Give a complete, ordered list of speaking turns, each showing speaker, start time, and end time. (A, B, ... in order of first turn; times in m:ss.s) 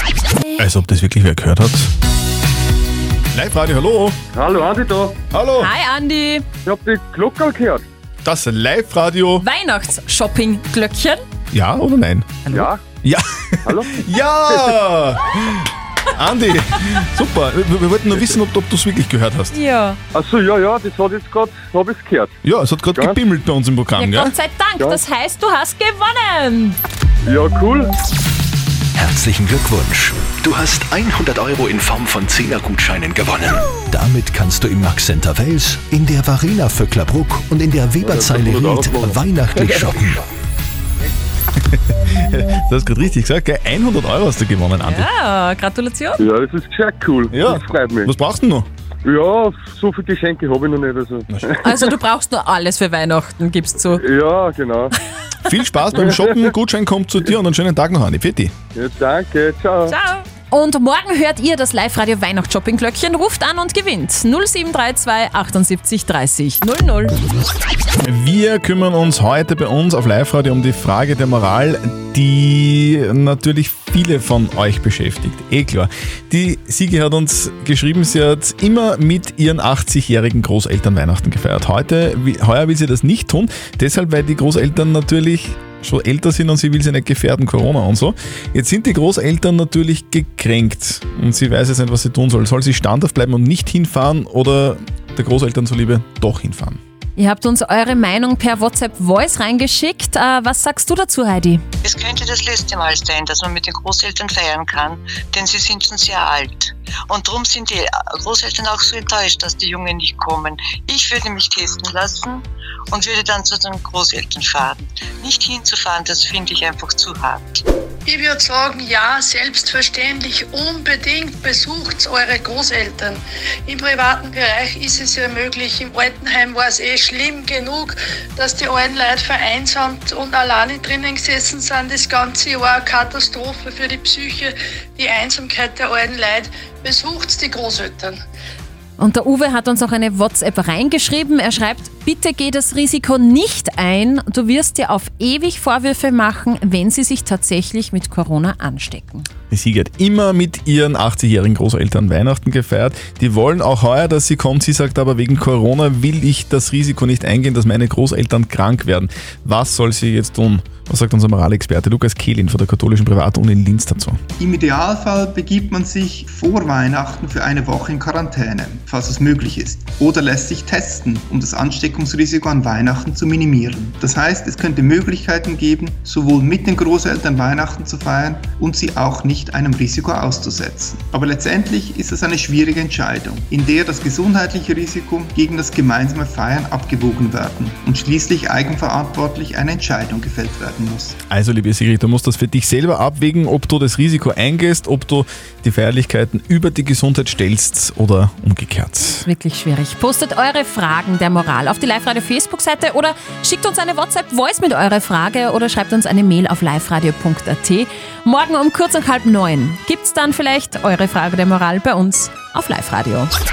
0:00.6-0:01.9 A
0:03.3-0:04.2 A
0:04.3-0:05.2 B
0:05.3-0:05.7 A
0:05.6-0:06.4 C
0:06.6-0:07.8 B
0:08.2-0:09.4 A
0:09.4-0:11.2 C
0:11.5-0:19.5 A
0:12.5-0:12.8 B
0:13.6-0:14.0 B
0:19.5-0:20.0 C
0:20.1-0:22.3 B
0:22.4-0:24.3 A
0:24.0-0:26.8 C
0:27.2-0:27.9 B
0:29.0-0:40.1 D
0:38.0-0:39.3 B
0:39.6-0:39.8 A
0:41.7-0:45.1 A
0:44.8-0:46.2 C
0:46.2-0:48.1 B
0:47.3-0:48.7 A
0:49.0-0:51.6 B
0:51.6-0:54.0 C
0:53.9-0:54.9 B
0:55.4-0:58.5 A
0:58.7-1:00.0 B
0:59.9-1:07.1 C
1:08.0-1:36.8 A
1:37.2-1:41.6 C
1:41.8-1:57.6 E
1:58.0-2:18.2 F
2:19.0-2:29.3 C
2:29.5-2:44.2 A
2:44.4-3:11.2 G
3:11.3-3:19.2 A
3:19.2-3:33.3 C